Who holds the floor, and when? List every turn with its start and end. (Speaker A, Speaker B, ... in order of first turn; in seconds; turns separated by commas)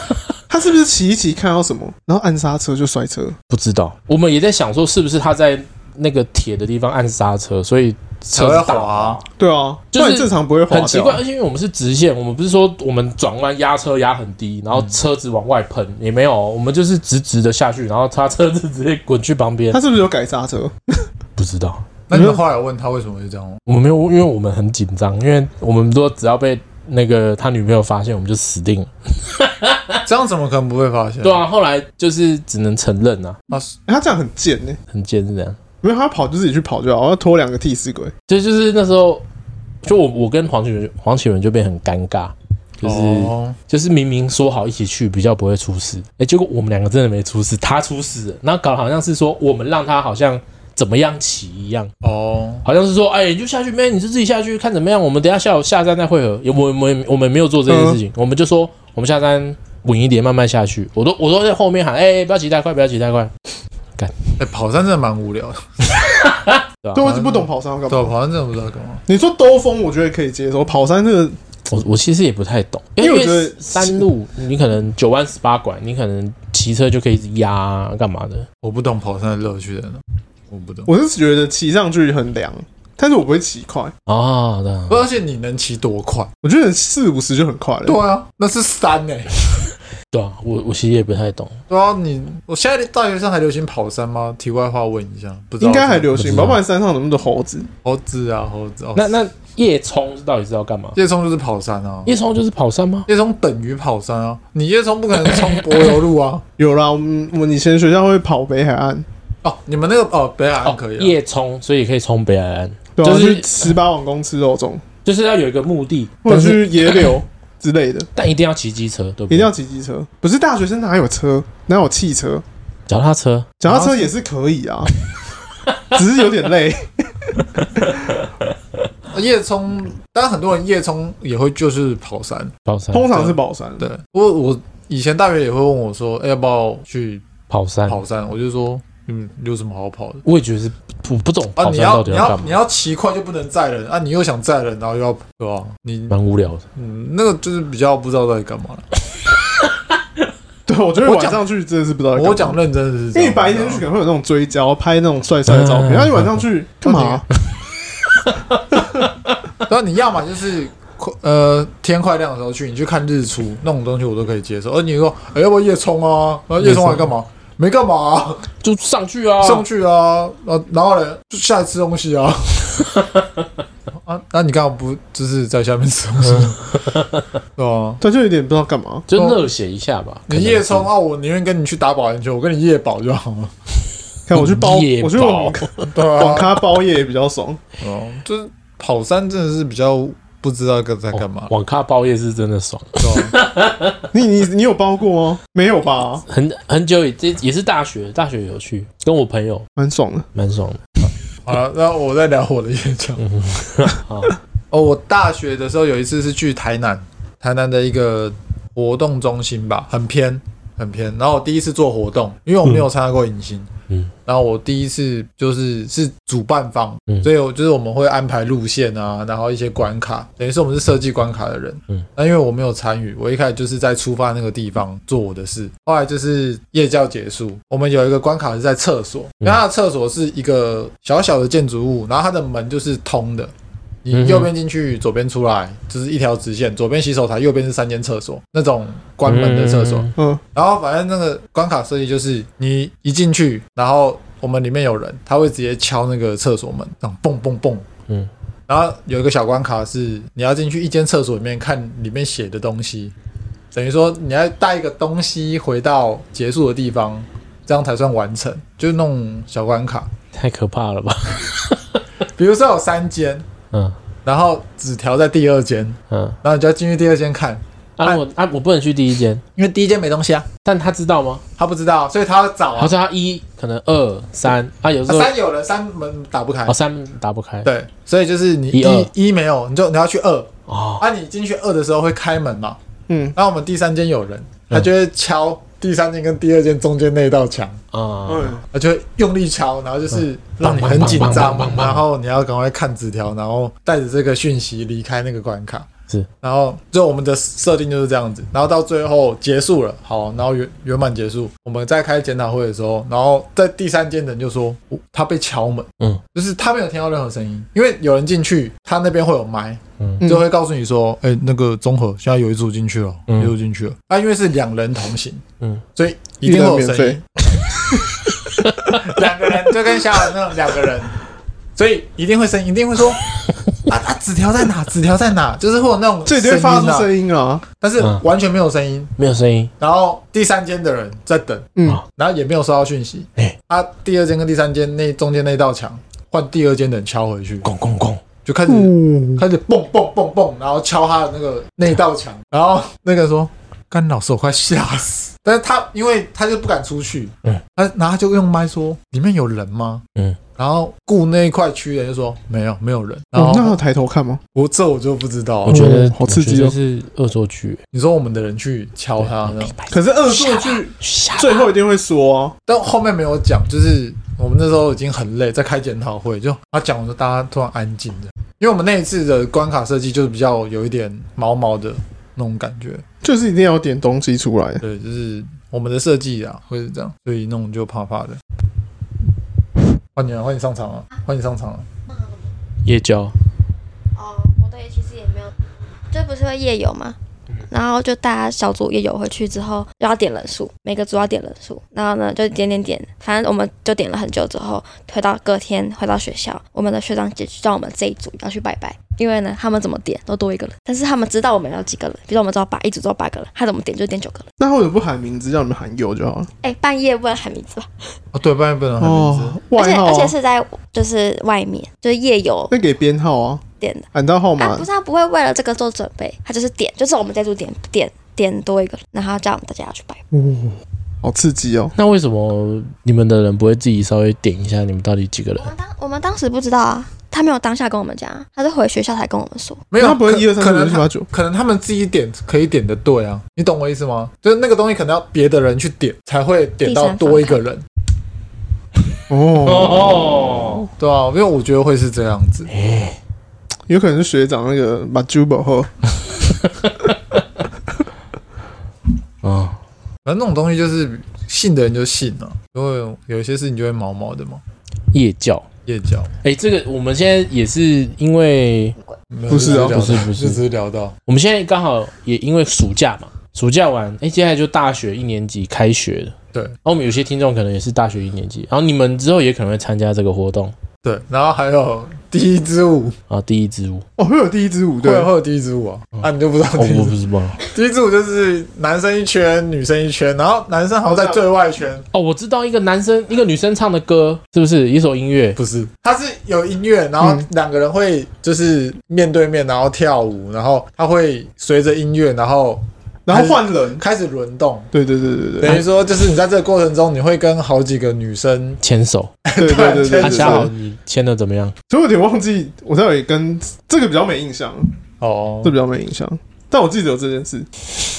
Speaker A: 0.5-3.4, Speaker B: 3.5-9.2, Speaker C: 8.3-9.2, Speaker A: 9.4-11.2, Speaker B: 9.9-19.8, Speaker A: 19.7-21.1, Speaker B: 21.4-21.8, Speaker C: 22.1-23.6, Speaker A: 22.1-22.4, Speaker B: 23.6-30.0, Speaker C: 30.0-31.4, Speaker B: 31.2-33.4, Speaker C: 33.5-33.7, Speaker A: 33.9-34.8, Speaker B: 34.9-35.6, Speaker A: 35.8-38.1, Speaker B: 38.3-39.2, Speaker B: 39.8-51.9, Speaker C: 42.8-43.6, Speaker C: 52.0-52.6, Speaker B: 52.6-63.3, Speaker A: 57.7-58.0, Speaker B: 64.0-64.4, Speaker C: 64.4-65.7, Speaker B: 66.0-67.1, Speaker A: 66.9-68.1, Speaker C: 67.0-69.0, Speaker A: 69.1-71.4, Speaker B: 71.7-78.5, Speaker A: 73.0-74.1, Speaker C: 78.6-80.9, Speaker A: 80.8-83.9, Speaker B: 84.1-85.0, Speaker C: 84.9-86.3, Speaker A: 86.4-88.0, Speaker C: 87.8-89.5, Speaker B: 90.1-91.6, Speaker C: 91.7-96.2, Speaker A: 95.6-97.7, Speaker B: 96.2-96.6, Speaker C: 97.8-99.1, Speaker B: 98.9-101.0, Speaker C: 100.9-102.1, Speaker B: 102.0-103.1, Speaker C: 103.1-106.4, Speaker A: 106.6-109.1, Speaker C: 109.4-111.1, Speaker B: 110.6-113.7, Speaker A: 113.0-114.8, Speaker B: 115.0-117.1, Speaker A: 116.2-118.1, Speaker B: 118.1-119.5, Speaker A: 119.3-122.4, Speaker B: 122.9-123.6, Speaker A: 123.6-124.9, Speaker C: 123.6-124.1, Speaker A: 125.9-127.8, Speaker B: 127.8-128.4, Speaker C: 129.1-132.5, Speaker B: 132.6-133.3, Speaker A: 132.9-133.9, Speaker C: 133.8-137.2, Speaker B: 137.5-138.0, Speaker C: 137.9-140.2, Speaker B: 140.2-142.5, Speaker C: 141.6-146.1, Speaker B: 146.1-146.6, Speaker C: 146.7-148.8, Speaker A: 150.7-152.6, Speaker C: 151.0-151.4, Speaker C: 152.1-153.8, Speaker A: 153.1-157.2, Speaker B: 155.5-156.4, Speaker C: 156.8-157.2, Speaker B: 158.1-159.4, Speaker C: 159.7-168.5, Speaker B: 166.6-167.1, Speaker B: 168.6-169.7, Speaker C: 169.4-172.9, Speaker B: 173.0-173.2, Speaker C: 174.0-176.8, Speaker B: 176.8-177.2, Speaker C: 177.6-178.0, Speaker A: 178.0-179.1, Speaker B: 179.1-180.9, Speaker C: 179.1-179.4, Speaker C: 180.3-183.5, Speaker A: 184.3-187.6, Speaker B: 184.3-185.9, Speaker C: 185.9-186.6, Speaker C: 187.8-191.5, Speaker B: 191.1-194.1, Speaker C: 193.0-193.3, Speaker A: 194.1-196.2, Speaker B: 196.3-199.7, Speaker A: 199.8-200.3, Speaker B: 200.3-201.1, Speaker C: 201.4-203.2, Speaker B: 203.2-204.3, Speaker C: 204.7-213.7, Speaker C: 214.2-233.5, Speaker C: 234.0-247.8, Speaker B: 234.1-234.5, Speaker B: 239.2-240.1, Speaker C: 248.7-253.1, Speaker C: 253.7-260.1, Speaker B: 260.3-262.0, Speaker C: 262.3-263.4, Speaker C: 264.2-268.2, Speaker B: 266.1-266.4, Speaker B: 268.0-269.4, Speaker C: 269.6-270.5, Speaker B: 270.6-271.4, Speaker C: 271.6-272.9, Speaker B: 272.8-275.3, Speaker C: 275.1-276.8, Speaker B: 276.7-277.7, Speaker C: 277.6-282.8, Speaker B: 278.7-279.1, Speaker B: 280.7-281.0, Speaker A: 283.1-283.3, Speaker C: 283.3-287.8, Speaker B: 287.9-288.6, Speaker A: 288.3-288.6, Speaker C: 288.7-295.9, Speaker B: 290.1-292.0, Speaker C: 296.4-315.4, Speaker B: 313.3-313.5, Speaker C: 315.9-317.2, Speaker A: 316.4-317.2, Speaker B: 318.5-319.0, Speaker C: 318.9-321.1, Speaker C: 321.8-323.2, Speaker C: 323.9-327.1, Speaker A: 326.2-327.6, Speaker C: 327.8-329.1, Speaker B: 329.2-329.7, Speaker C: 329.8-337.6, Speaker A: 331.8-332.0, Speaker B: 337.6-338.2, Speaker C: 338.4-350.0, Speaker A: 338.7-339.4, Speaker C: 350.6-353.8, Speaker A: 353.3-354.4, Speaker C: 354.5-355.9, Speaker B: 355.6-357.8, Speaker A: 355.7-356.8, Speaker C: 357.9-359.7, Speaker B: 359.2-361.7, Speaker A: 359.9-362.5, Speaker C: 362.7-373.0, Speaker A: 373.2-374.8, Speaker C: 374.8-378.4, Speaker C: 380.1-381.8, Speaker D: 382.1-382.4, Speaker B: 382.8-383.3, Speaker D: 384.1-385.5, Speaker D: 386.1-387.2, Speaker D: 387.7-404.5, Speaker A: 404.6-406.5, Speaker D: 406.6-407.9, Speaker C: 408.3-409.6, Speaker A: 409.0-410.3, Speaker D: 409.7-412.7, Speaker A: 412.7-414.9, Speaker D: 413.8-414.1, Speaker D: 414.6-420.2, Speaker A: 420.3-421.9, Speaker B: 421.9-425.7, Speaker D: 425.6-429.8, Speaker C: 429.9-437.8, Speaker A: 430.0-431.3, Speaker D: 436.8-437.6, Speaker A: 439.3-440.2, Speaker B: 439.6-440.9, Speaker C: 441.0-442.7, Speaker B: 442.7-443.2, Speaker A: 443.9-445.9, Speaker B: 446.6-447.4, Speaker B: 449.4-449.8, Speaker C: 450.2-454.6, Speaker B: 455.1-455.7, Speaker C: 455.9-456.3, Speaker B: 456.4-458.9, Speaker C: 459.3-461.1, Speaker A: 459.5-460.0, Speaker B: 459.5-460.6, Speaker B: 461.3-470.7, Speaker C: 471.0-473.1, Speaker B: 473.3-474.0, Speaker A: 474.2-475.3, Speaker C: 475.0-482.1, Speaker B: 476.1-477.6, Speaker A: 481.1-481.4, Speaker B: 482.1-485.6, Speaker C: 485.6-494.9, Speaker A: 487.2-487.4, Speaker A: 493.2-494.0, Speaker A: 494.9-495.8, Speaker C: 495.6-498.8, Speaker B: 498.8-499.3, Speaker C: 499.4-500.7, Speaker A: 499.6-500.7, Speaker B: 500.2-501.7, Speaker A: 501.9-504.9, Speaker C: 505.2-505.8, Speaker A: 505.6-507.7